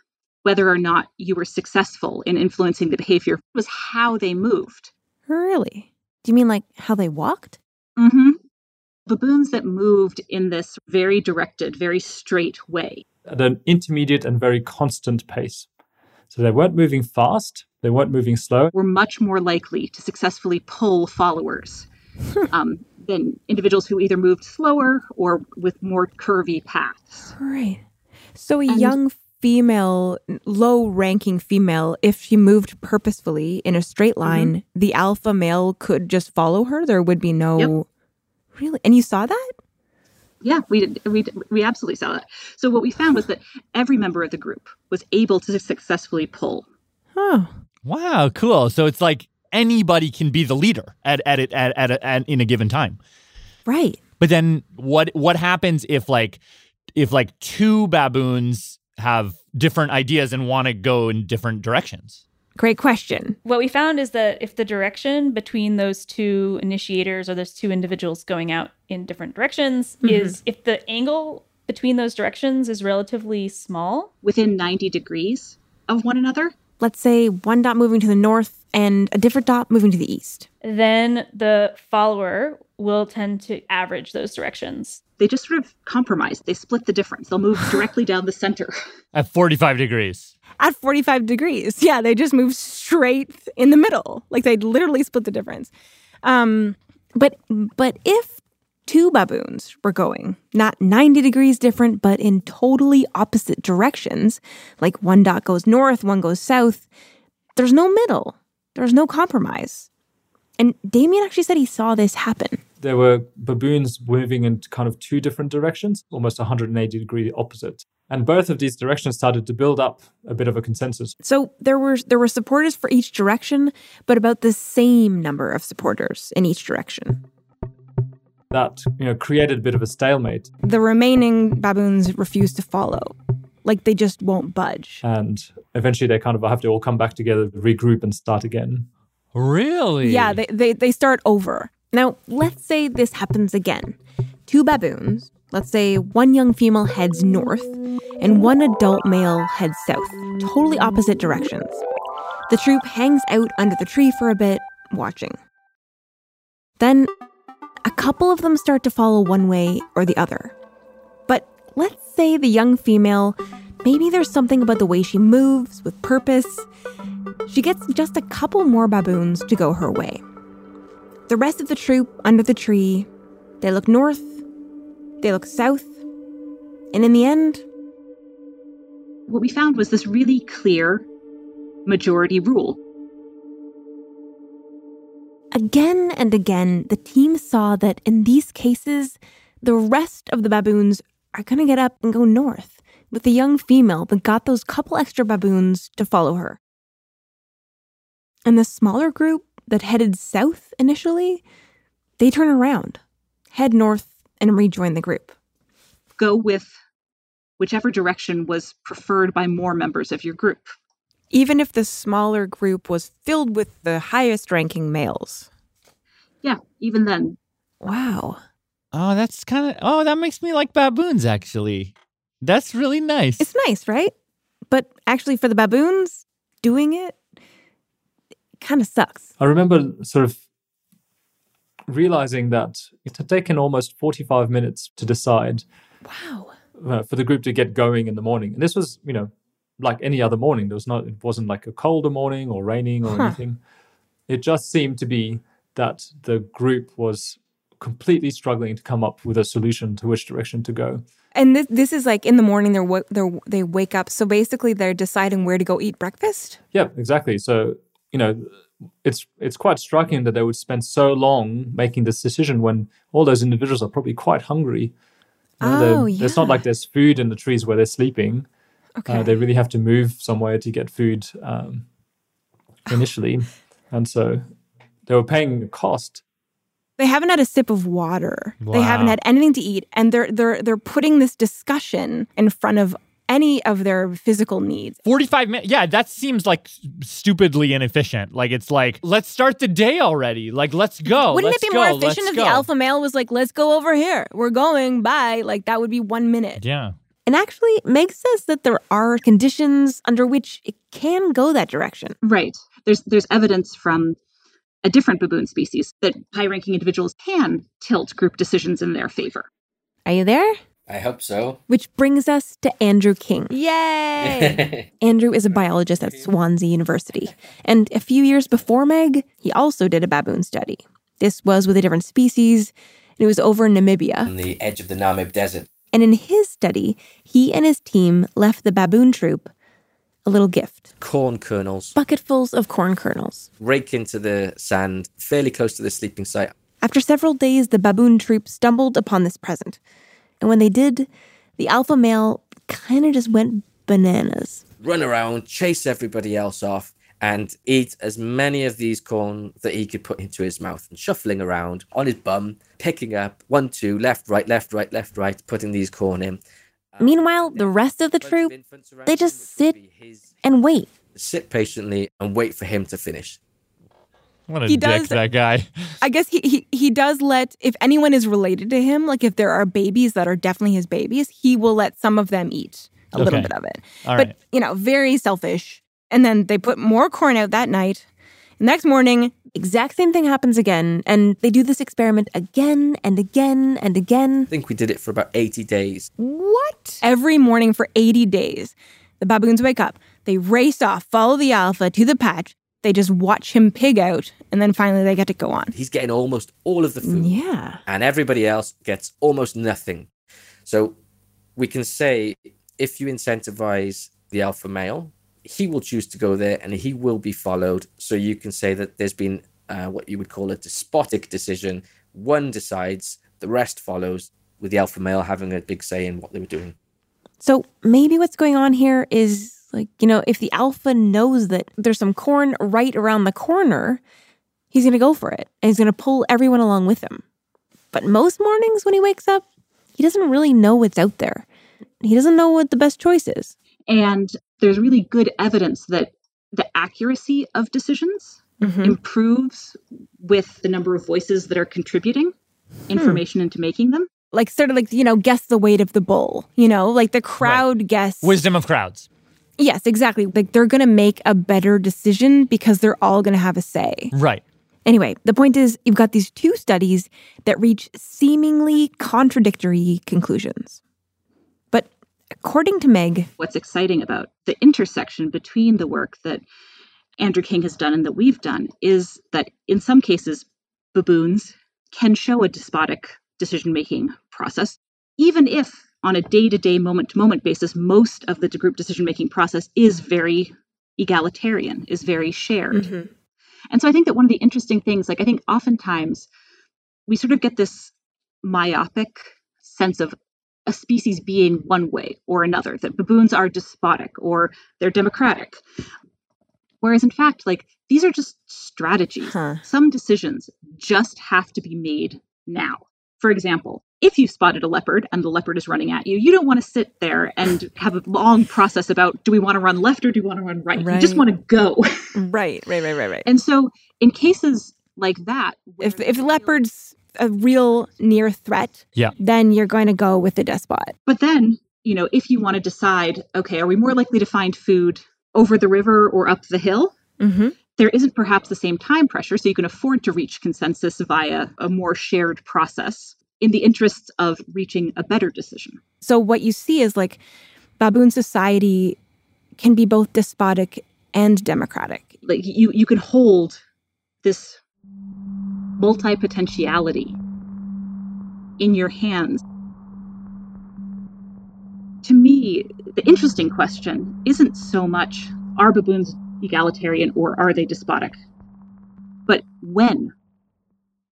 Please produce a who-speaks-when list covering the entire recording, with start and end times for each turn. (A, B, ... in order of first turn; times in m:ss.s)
0:00.4-0:04.9 A
0:05.3-0:07.6 B
0:08.0-0:08.4 A
0:09.1-0:13.0 A
0:13.3-0:15.7 C
0:16.3-0:18.7 C
0:18.7-0:21.9 A
0:22.5-0:27.3 A
0:27.4-0:27.8 B
0:28.4-0:37.8 B
0:28.7-0:29.0 A
0:34.2-0:34.5 A
0:38.5-0:39.5 B
0:40.4-0:46.7 A
0:47.1-0:47.6 B
0:47.8-0:53.0 D
0:53.6-0:54.0 B
0:54.2-0:56.4 D
0:57.0-1:02.2 D
1:02.6-1:03.4 B
1:03.4-1:14.1 E
1:10.0-1:10.4 B
1:14.2-1:16.5 A
1:16.8-1:20.5 B
1:20.6-1:25.0 E
1:25.2-1:28.7 A
1:29.1-1:30.3 D
1:30.6-1:35.7 B
1:36.2-1:46.9 B
1:47.6-1:49.9 B
1:50.6-1:52.6 B
1:52.8-2:01.1 C
2:01.2-2:07.2 B
2:08.5-2:10.5 C
2:10.6-2:15.0 B
2:15.0-2:18.9 C
2:19.3-2:20.4 D
2:20.0-2:31.8 B
2:32.5-2:35.4 B
2:36.8-2:37.1 B
2:37.8-2:40.5 B
2:41.3-2:46.6 B
2:47.5-2:50.2 B
2:51.3-2:53.1 B
2:53.6-2:54.4 B
2:55.2-2:56.0 B
2:56.9-2:57.6 B
2:59.3-3:01.1 A
3:01.8-3:02.8 A
3:05.5-3:16.6 B
3:18.4-3:21.4 B
3:22.2-3:23.0 B
3:23.5-3:25.3 B
3:26.2-3:26.8 A
3:27.6-3:30.7 A
3:31.3-3:35.5 B
3:36.4-3:37.4 A
3:37.8-3:38.4 B
3:38.9-3:43.5 D
3:43.4-3:44.1 B
3:44.7-3:47.2 B
3:48.6-3:49.3 B
3:49.4-3:50.4 C
3:51.9-3:55.6 C
3:56.0-3:56.5 B
3:56.8-4:03.6 C
4:03.0-4:03.4 B
4:04.3-4:11.0 C
4:11.3-4:16.6 B
4:16.7-4:24.9 C
4:25.6-4:28.5 C
4:25.6-4:26.6 B
4:29.0-4:29.4 B
4:29.1-4:31.8 C
4:32.9-4:34.5 C
4:35.0-4:36.2 C
4:37.0-4:45.0 B
4:38.6-4:39.2 D
4:45.0-4:52.6 D
4:51.1-4:56.6 B
4:56.6-4:56.9 D
4:57.2-5:02.2 B
5:02.2-5:04.2 A
5:04.8-5:09.5 A
5:10.0-5:10.6 B
5:10.9-5:11.6 F
5:11.7-5:24.3 B
5:14.2-5:16.3 F
5:24.2-5:25.7 F
5:25.9-5:29.5 B
5:30.2-5:30.9 B
5:31.0-5:31.9 F
5:31.9-5:33.5 B
5:33.6-5:36.5 F
5:36.8-5:39.8 B
5:40.4-5:44.6 B
5:44.8-5:56.4 F
5:56.9-6:00.3 F
5:57.0-5:59.8 B
6:00.4-6:00.9 B
6:01.1-6:03.4 F
6:04.5-6:05.8 D
6:04.7-6:05.2 B
6:06.0-6:18.0 B
6:13.1-6:13.5 D
6:14.0-6:14.3 D
6:18.6-6:24.5 B
6:24.5-6:26.1 F
6:26.2-6:35.7 B
6:35.7-6:40.1 F
6:37.0-6:37.8 B
6:40.6-6:41.0 F
6:41.6-6:56.7 F
6:57.4-7:04.0 B
7:04.7-7:07.2 B
7:07.9-7:09.4 B
7:10.0-7:11.4 B
7:12.0-7:13.5 B
7:13.9-7:22.3 A
7:18.6-7:19.0 B
7:22.9-7:24.1 A
7:22.9-7:23.2 B
7:24.3-7:28.4 B
7:28.2-7:29.1 D
7:29.6-7:34.1 B
7:34.1-7:34.4 D
7:34.8-7:40.8 B
7:41.7-7:43.3 B
7:43.4-7:46.4 A
7:47.2-8:02.9 A
8:02.7-8:03.1 B
8:03.7-8:06.3 A
8:07.1-8:10.1 A
8:10.6-8:15.6 A
8:16.8-8:32.1 A
8:19.3-8:19.6 B
8:30.8-8:31.2 B
8:32.1-8:33.3 B
8:33.2-8:36.6 A
8:35.8-8:40.9 B
8:41.0-8:46.9 A
8:47.2-8:47.6 B
8:47.8-8:55.8 A
8:56.0-8:57.2 B
8:57.8-8:59.0 B
8:59.6-9:02.1 B
9:02.2-9:03.6 A
9:04.2-9:04.6 A
9:05.8-9:07.2 A
9:08.6-9:09.4 A
9:12.0-9:18.1 A
9:19.3-9:20.1 A